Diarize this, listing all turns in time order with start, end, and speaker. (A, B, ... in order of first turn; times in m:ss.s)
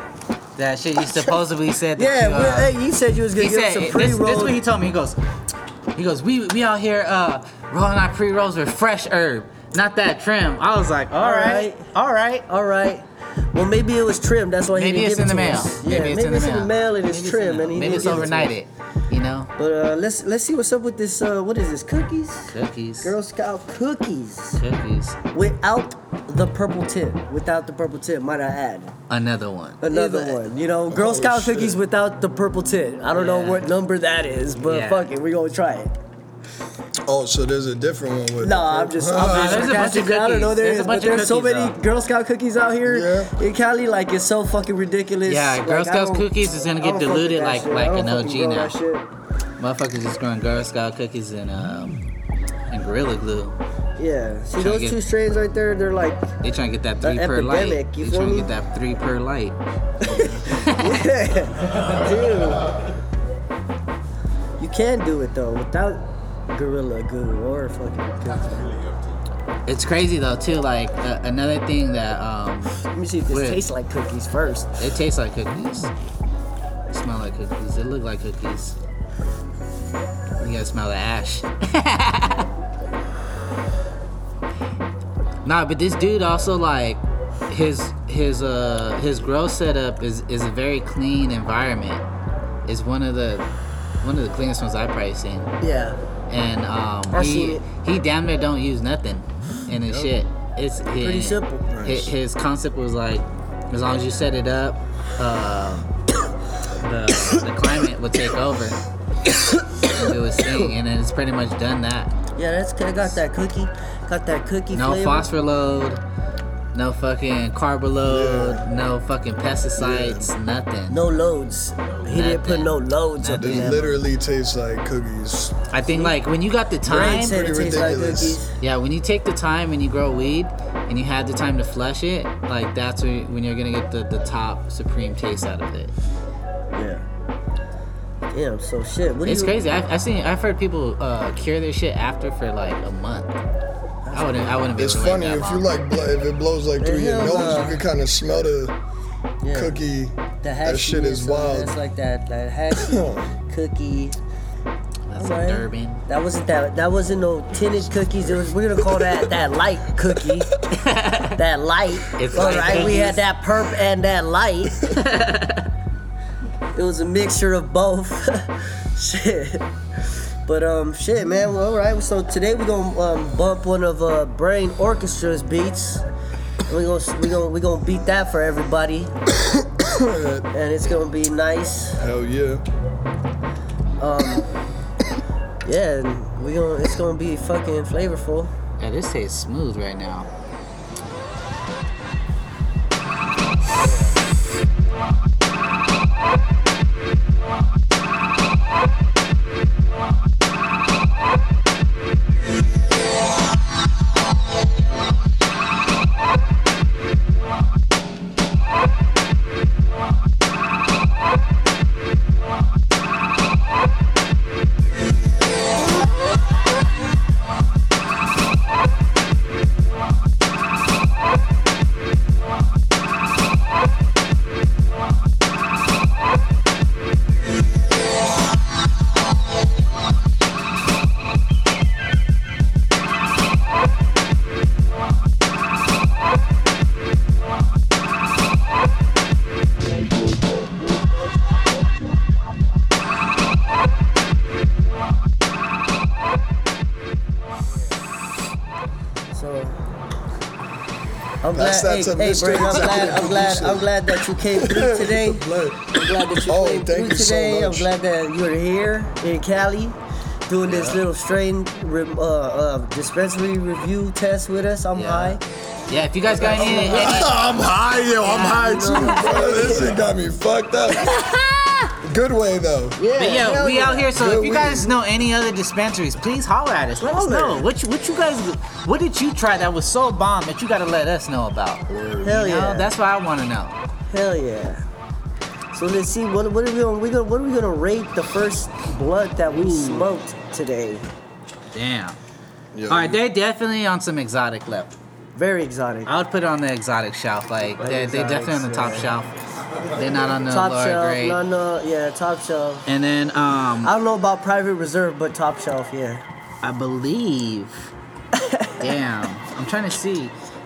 0:00.6-0:02.7 A
0:01.1-0:01.4 B
0:02.0-0:04.6 B
0:03.4-0:05.2 A
0:05.9-0:12.4 A
0:11.2-0:11.9 B
0:12.5-0:18.5 B
0:14.7-0:19.5 A
0:19.6-0:24.6 B
0:22.5-0:23.1 A
0:24.6-0:25.2 A
0:25.3-0:28.9 B
0:29.1-0:30.4 A
0:29.8-0:35.9 B
0:30.9-0:31.8 C
0:33.1-0:33.7 A
0:34.6-0:35.1 A
0:37.1-0:39.8 C
0:38.4-0:49.1 B
0:39.2-0:41.8 A
0:42.8-0:43.3 C
0:45.2-0:48.7 A
0:49.6-0:52.0 A
0:52.7-0:53.6 A
0:54.0-0:56.3 B
0:54.6-0:55.0 A
0:56.4-1:01.1 A
0:57.0-0:58.5 B
1:00.0-1:02.7 B
1:04.6-1:08.7 B
1:09.6-1:13.6 A
1:12.8-1:14.8 B
1:14.8-1:15.9 A
1:16.9-1:18.8 A
1:20.4-1:22.5 A
1:25.4-1:32.0 A
1:32.6-1:33.5 A
1:34.0-1:35.5 A
1:35.6-1:36.0 B
1:36.3-1:45.9 A
1:37.1-1:37.6 B
1:41.0-1:41.7 B
1:41.7-1:42.1 C
1:46.8-1:48.8 A
1:49.9-1:52.1 A
1:52.4-1:55.3 B
1:54.7-1:56.0 A
1:56.7-2:01.0 A
1:58.0-1:58.6 C
1:59.8-2:00.3 C
2:00.9-2:03.9 B
2:02.0-2:03.9 A
2:03.4-2:05.5 C
2:05.7-2:07.4 A
2:05.9-2:06.1 B
2:06.8-2:08.5 B
2:06.8-2:08.4 C
2:08.6-2:15.9 A
2:16.7-2:17.0 B
2:18.3-2:19.6 B
2:19.2-2:23.4 A
2:24.0-2:24.7 B
2:24.1-2:25.7 A
2:24.8-2:28.7 C
2:26.8-2:27.8 B
2:27.3-2:27.6 A
2:29.4-2:29.7 B
2:29.5-2:31.8 C
2:30.4-2:34.2 B
2:32.7-2:33.3 C
2:35.1-2:36.0 A
2:35.2-2:40.5 B
2:40.7-2:41.4 A
2:41.4-2:44.9 B
2:42.1-2:43.2 A
2:42.4-2:42.9 C
2:44.8-2:45.7 A
2:46.7-2:49.6 B
2:50.4-2:56.0 B
2:56.7-2:59.1 B
2:59.5-3:00.4 C
3:00.5-3:02.0 B
3:02.0-3:02.6 C
3:04.0-3:04.5 B
3:05.6-3:08.5 B
3:08.8-3:10.3 A
4:09.3-4:09.8 B
4:11.4-4:25.4 B
4:11.5-4:17.9 C
4:20.6-4:21.0 A
4:24.9-4:27.5 A
4:26.2-4:27.3 B
4:26.4-4:31.2 C
4:28.2-4:29.6 A
4:28.4-4:30.0 B
4:31.0-4:31.9 A
4:32.0-4:33.0 C
4:33.0-4:34.1 B
4:33.2-4:43.8 A
4:34.1-4:35.0 C
4:37.0-4:37.7 B
4:41.9-4:42.4 C
4:42.2-4:42.9 B
4:44.1-4:44.8 B
4:45.7-4:51.1 B
4:49.6-4:50.1 A
4:51.7-4:52.2 A
4:52.7-4:53.2 C
4:52.9-4:54.9 A
4:55.3-4:56.1 B
4:56.0-4:59.3 A
4:57.8-4:59.1 B
4:59.9-5:01.4 A
5:00.4-5:02.8 B
5:02.8-5:03.9 A
5:03.8-5:06.2 B
5:06.6-5:07.9 A
5:08.3-5:08.9 B
5:08.8-5:10.3 A